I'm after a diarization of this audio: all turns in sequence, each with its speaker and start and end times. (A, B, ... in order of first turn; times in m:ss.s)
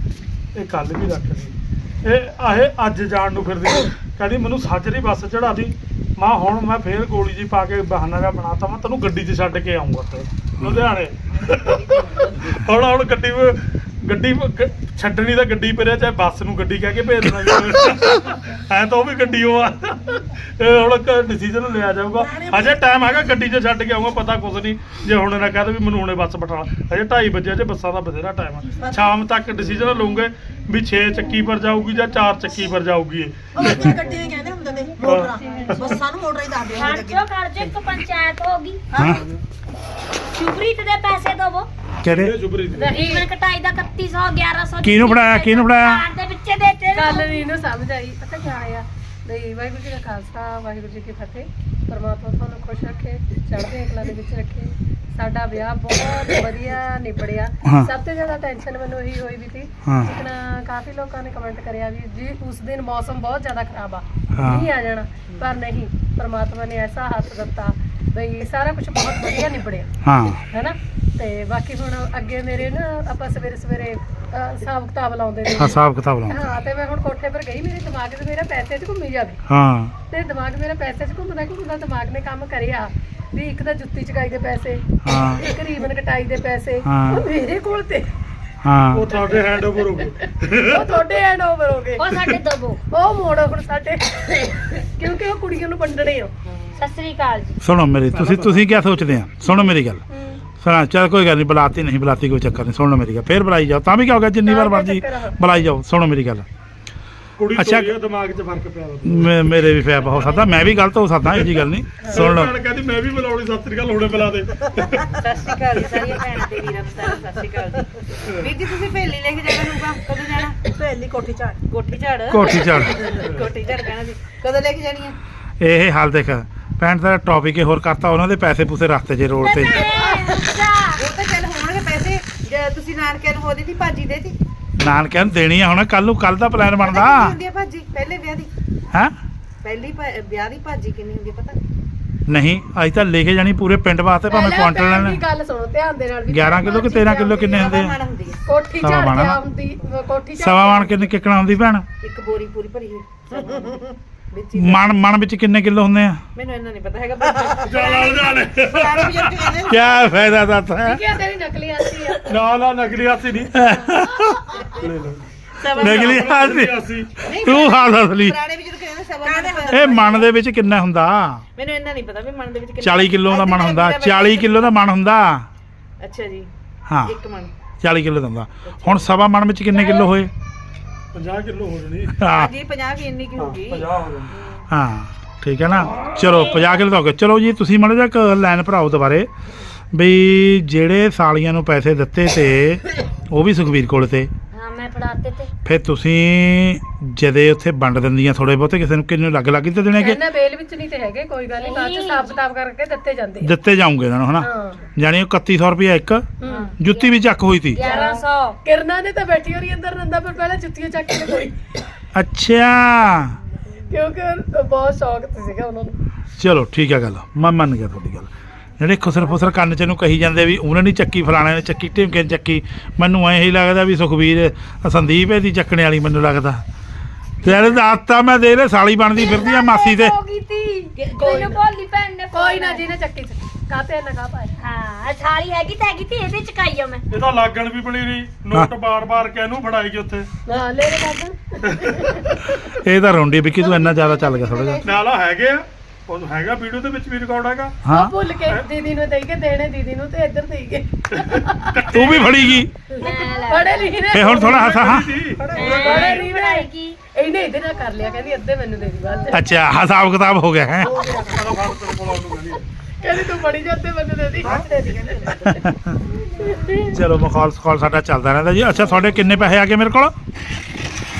0:00.6-0:34.0 A
0:10.6-0:10.8 B
0:11.3-0:12.6 C
0:22.2-0:22.8 D
0:28.8-0:29.2 D
0:33.5-0:37.3 D
0:35.0-0:35.8 A
0:35.1-0:36.0 E
0:36.7-0:38.8 F
0:38.9-0:39.2 D
0:39.0-0:39.2 B
0:39.0-0:39.4 A
0:40.3-0:41.7 F
0:42.0-0:42.3 B
0:42.0-0:43.0 A
0:42.8-0:43.2 E
0:42.8-0:47.5 F
0:44.8-0:46.0 B
0:46.9-1:09.9 E
0:57.6-0:57.9 B
0:59.8-1:00.1 B
1:04.3-1:04.7 B
1:10.0-1:10.4 B
1:10.5-1:19.4 E
1:15.6-1:16.4 B
1:19.5-1:19.9 B
1:20.1-1:24.8 E
1:25.0-1:25.4 B
1:25.4-1:28.1 E
1:26.9-1:27.3 B
1:28.6-1:29.1 B
1:28.9-1:30.9 A
1:29.3-1:32.3 E
1:32.0-1:32.8 F
1:32.9-1:36.3 E
1:36.8-1:37.6 F
1:37.6-1:40.0 B
1:38.1-1:38.7 A
1:40.1-1:40.4 E
1:40.6-1:46.5 B
1:44.4-1:45.7 E
1:47.4-1:49.5 A
1:47.5-1:48.0 B
1:49.0-1:52.5 B
1:52.1-1:55.2 A
1:55.1-2:00.7 C
2:00.6-2:01.6 D
2:01.7-2:05.2 C
2:02.3-2:03.1 B
2:05.6-2:09.9 B
2:09.4-2:11.0 F
2:09.7-2:14.4 C
2:14.8-2:17.4 B
2:16.8-2:18.5 C
2:19.6-2:21.6 C
2:22.3-2:25.2 B
2:24.3-2:27.7 E
2:26.3-2:28.0 B
2:26.9-2:28.4 C
2:28.5-2:31.1 E
2:28.8-2:29.4 B
2:30.4-2:31.8 B
2:32.0-2:34.9 C
2:34.6-2:36.2 B
2:36.4-2:40.1 C
2:37.6-2:39.5 A
2:39.6-2:41.0 B
2:40.8-2:42.4 E
2:42.2-2:43.6 A
2:43.5-2:44.5 B
2:44.7-2:47.3 A
2:45.6-2:46.4 C
2:45.8-2:48.4 B
2:47.2-2:50.3 C
2:49.2-2:50.2 D
2:49.7-2:51.4 B
2:51.5-2:54.7 C
2:52.8-2:55.4 B
2:56.0-2:56.5 C
2:56.9-2:57.1 B
2:57.0-2:57.5 C
2:57.8-3:00.3 B
2:58.6-2:59.1 C
2:59.8-3:00.0 C
3:01.1-3:02.2 A
3:02.2-3:02.5 B
3:02.3-3:04.0 C
3:03.4-3:04.3 A
3:04.7-3:09.3 B
3:05.8-3:06.3 A
3:06.3-3:06.8 F
3:09.9-3:14.3 B
3:14.5-3:15.5 F
3:15.6-3:20.2 B
3:20.0-3:23.5 E
3:21.6-3:22.4 F
3:23.4-3:26.2 B
3:24.4-3:24.9 E
3:26.4-3:26.7 E
3:26.5-3:27.0 F
3:26.8-3:27.8 B
3:27.7-3:28.6 F
3:27.8-3:31.6 E
3:32.1-3:33.4 B
3:33.9-3:36.0 E
3:36.4-3:46.6 B
3:47.4-3:50.1 B
3:49.2-3:52.8 F
3:51.2-3:51.6 E
3:52.3-3:54.5 E
3:54.6-3:57.1 F
3:57.1-4:00.3 A
4:00.5-4:02.5 E
4:01.6-4:02.3 A
4:02.6-4:04.9 B
4:03.6-4:05.0 C
4:04.8-4:07.8 A
4:07.8-4:08.1 B
4:07.9-4:12.0 E
4:11.2-4:12.6 A
4:11.9-4:12.7 B
4:13.0-4:14.9 E
4:13.0-4:14.1 F
4:14.1-4:15.2 B
4:14.2-4:16.3 A
4:15.3-4:15.9 D
4:15.5-4:17.0 F
4:15.5-4:19.5 E
4:19.3-4:21.0 B
4:20.8-4:21.6 D
4:21.2-4:22.6 A
4:23.0-4:25.5 E
4:24.4-4:25.4 D
4:25.4-4:26.0 B
4:26.4-4:27.0 E
4:26.9-4:30.1 B